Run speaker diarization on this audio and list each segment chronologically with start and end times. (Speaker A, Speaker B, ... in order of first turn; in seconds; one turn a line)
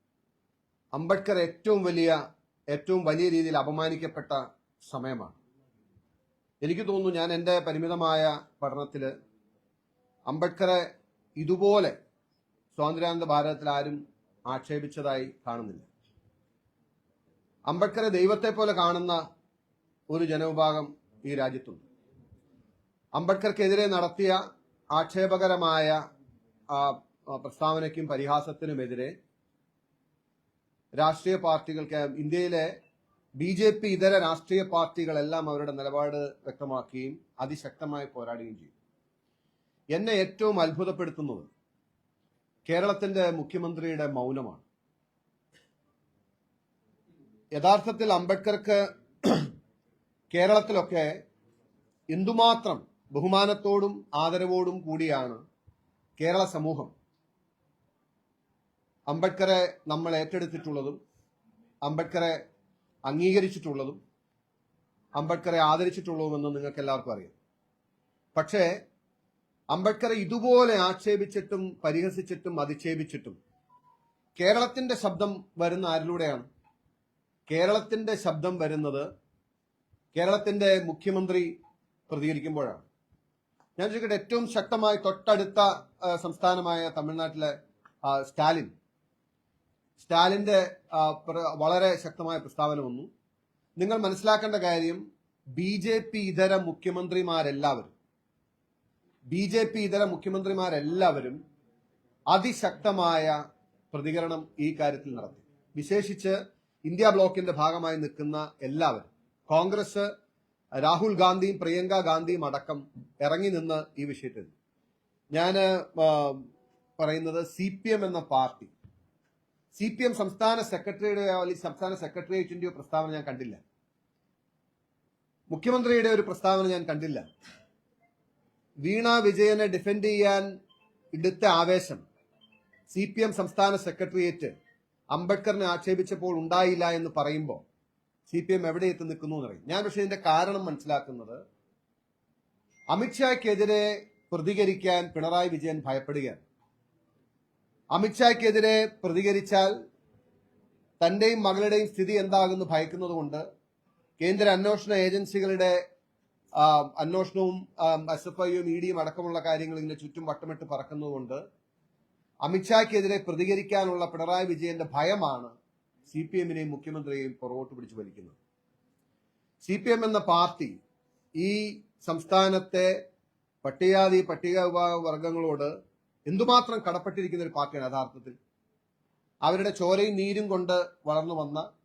Speaker A: 0.9-2.2
Speaker A: 2.7-5.4
Speaker A: 6.6-9.1
Speaker A: 10.3-10.9
Speaker A: 11.4-11.9
Speaker A: 12.7-15.9
Speaker A: 17.7-19.2
Speaker A: 20.1-21.8
Speaker A: 23.1-24.4
Speaker A: 24.9-26.0
Speaker A: 26.7-29.1
Speaker A: 31.0-32.7
Speaker A: 33.4-38.7
Speaker A: 39.9-41.5
Speaker A: 42.6-44.6
Speaker A: 47.5-49.5
Speaker A: 50.3-51.2
Speaker A: 52.1-55.4
Speaker A: 56.2-56.9
Speaker A: 59.1-61.0
Speaker A: 61.8-62.4
Speaker A: 63.1-64.0
Speaker A: 65.2-67.3
Speaker A: 68.3-68.7
Speaker A: 69.7-73.4
Speaker A: 74.4-76.5
Speaker A: 77.5-79.1
Speaker A: 80.1-81.5
Speaker A: 82.1-82.9
Speaker A: 83.8-87.5
Speaker A: 88.0-88.7
Speaker A: 90.0-93.1
Speaker A: 93.8-95.0
Speaker A: 95.5-97.9
Speaker A: 99.3-101.4
Speaker A: 102.3-110.1
Speaker A: 110.8-114.5
Speaker A: 115.3-116.4
Speaker A: 117.0-118.7
Speaker A: 119.7-123.6
Speaker A: 125.5-127.2
Speaker A: 128.8-130.5
Speaker A: 131.1-132.0
Speaker A: 132.9-134.5
Speaker A: 135.1-137.6
Speaker A: 138.3-141.4
Speaker A: 142.9-146.4
Speaker A: 147.9-149.7
Speaker A: 151.0-153.4
Speaker A: 154.2-155.8
Speaker A: 156.5-161.4
Speaker A: 162.4-165.5
Speaker A: 166.1-168.4
Speaker A: 169.6-170.7
Speaker A: 171.4-172.9
Speaker A: 173.6-175.7
Speaker A: 176.3-178.3
Speaker A: 179.4-181.7